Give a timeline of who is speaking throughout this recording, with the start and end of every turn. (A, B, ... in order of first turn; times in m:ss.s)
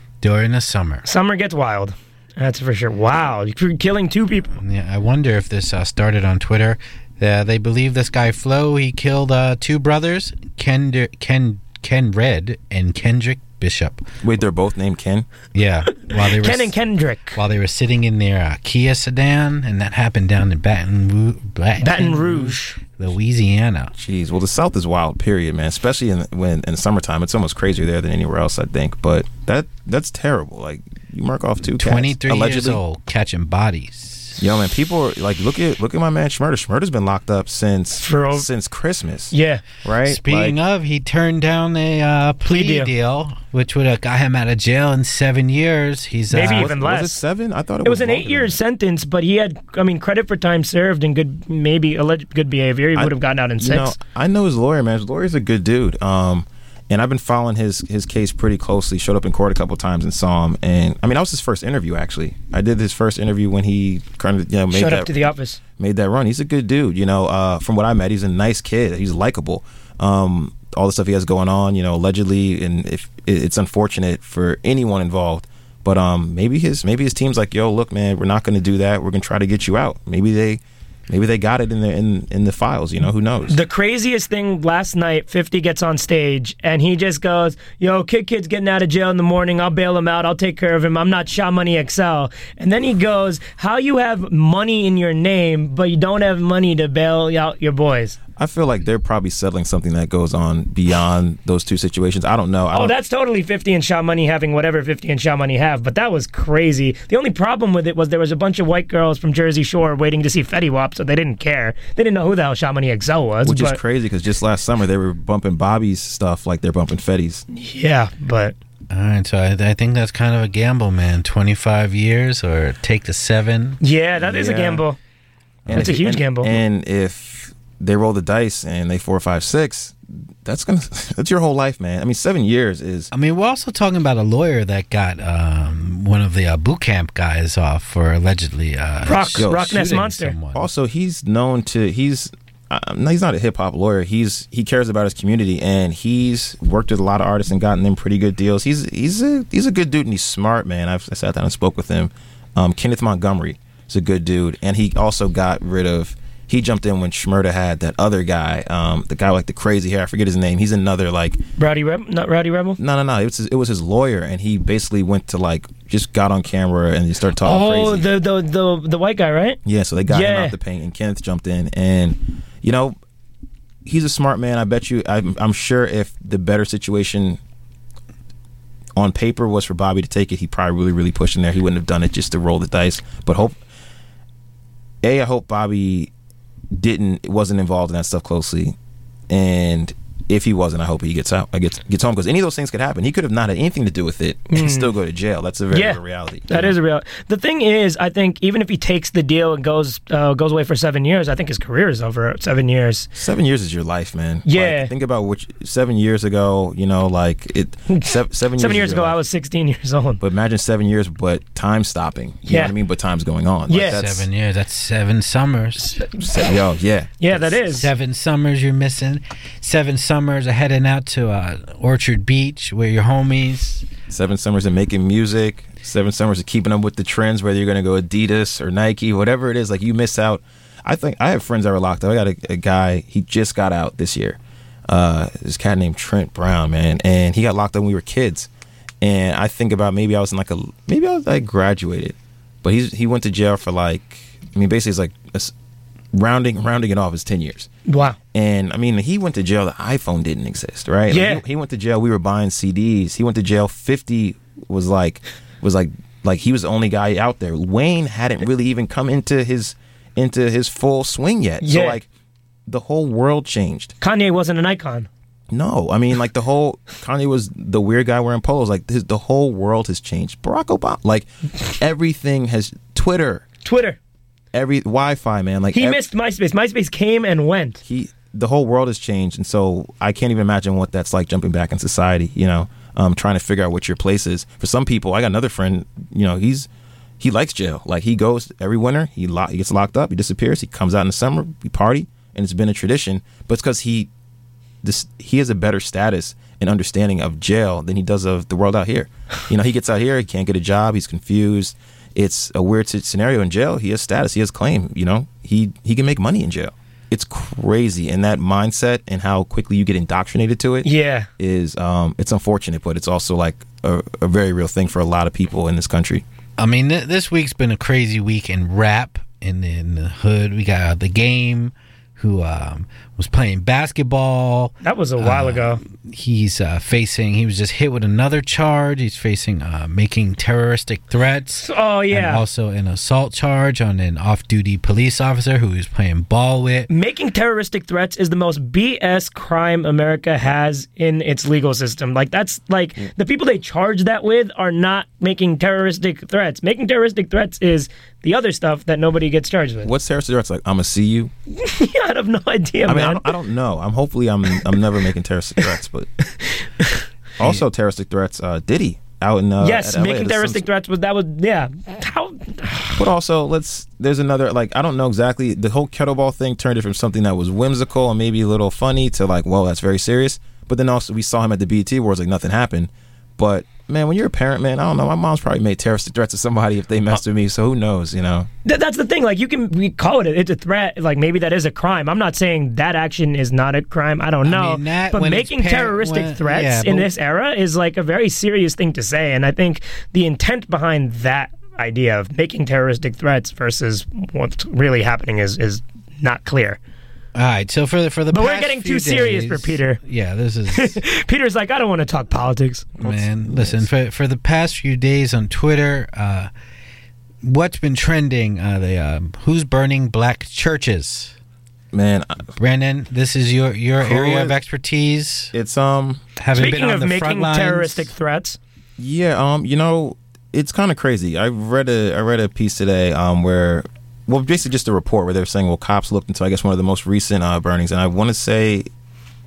0:00.2-0:01.0 A
0:01.0-0:04.5 B
0:04.6-0:14.0 A
0:14.2-0:15.3 C
0:15.5-0:16.7 A
0:16.2-0:17.4 B
0:17.4-0:23.9 A
0:21.8-0:22.8 B
0:24.0-0:32.8 C
0:31.7-0:34.4 A
0:34.4-0:40.6 C
0:38.0-0:38.5 B
0:39.3-0:39.6 B
0:40.1-0:46.7 A
0:42.5-0:42.9 B
0:46.3-0:47.2 B
0:46.4-0:48.6 C
0:47.8-0:53.9 B
0:53.0-1:05.2 C
1:04.7-1:05.6 B
1:05.8-1:23.6 C
1:23.5-1:38.2 B
1:38.4-1:42.9 C
1:42.7-1:53.8 B
1:53.4-1:57.4 C
1:57.5-1:58.6 B
1:58.9-2:03.8 A
2:03.8-2:05.0 B
2:04.2-2:04.8 C
2:05.7-2:06.0 A
2:05.7-2:13.1 C
2:05.7-2:06.6 B
2:13.1-2:20.7 A
2:19.0-2:20.4 B
2:19.4-2:19.8 C
2:20.5-2:41.4 C
2:41.6-2:42.8 B
2:42.8-2:48.1 C
2:47.4-2:50.6 B
2:49.6-2:53.0 C
2:53.8-2:57.4 C
2:59.0-3:03.6 C
3:05.0-3:06.1 C
3:06.7-3:08.8 C
3:09.3-3:16.8 C
3:14.5-3:14.9 B
3:15.7-3:23.1 B
3:23.2-3:29.2 C
3:24.5-3:24.9 B
3:27.9-3:30.2 B
3:30.2-3:34.2 C
3:32.5-3:32.7 B
3:33.7-3:34.0 B
3:33.8-3:36.0 A
3:36.1-3:37.8 C
3:37.2-3:37.9 B
3:37.8-3:43.9 A
3:44.1-3:58.5 C
3:59.0-4:05.5 C
4:06.1-4:07.7 C
4:07.9-4:08.2 B
4:08.3-4:22.1 C
4:11.1-4:11.4 B
4:21.6-4:22.0 B
4:22.7-4:24.0 C
4:24.0-4:25.1 B
4:25.5-4:31.3 C
4:31.8-4:33.4 C
4:33.6-4:34.0 B
4:34.5-4:36.0 C
4:35.7-4:37.8 B
4:37.8-4:46.7 C
4:47.2-4:54.1 C
4:54.8-5:10.9 C
5:10.8-5:11.3 B
5:11.4-5:16.2 C
5:16.6-5:36.9 A
5:24.8-5:25.8 B
5:31.6-5:32.4 B
5:36.9-5:49.9 B
5:49.8-5:51.3 C
5:51.5-5:53.3 B
5:52.9-5:56.1 C
5:56.4-5:57.6 B
5:57.4-6:00.6 C
5:59.6-6:03.1 B
6:03.0-6:18.5 C
6:18.6-6:36.8 B
6:24.4-6:27.1 A
6:37.4-6:41.0 A
6:38.3-6:40.0 B
6:40.7-6:43.0 B
6:43.0-6:46.5 A
6:43.1-6:43.9 C
6:47.4-6:51.4 A
6:51.9-6:52.5 C
6:52.6-6:55.5 A
6:54.0-6:54.6 C
6:55.5-6:56.2 C
6:56.4-6:58.1 A
6:56.6-6:58.6 B
6:59.0-7:08.9 C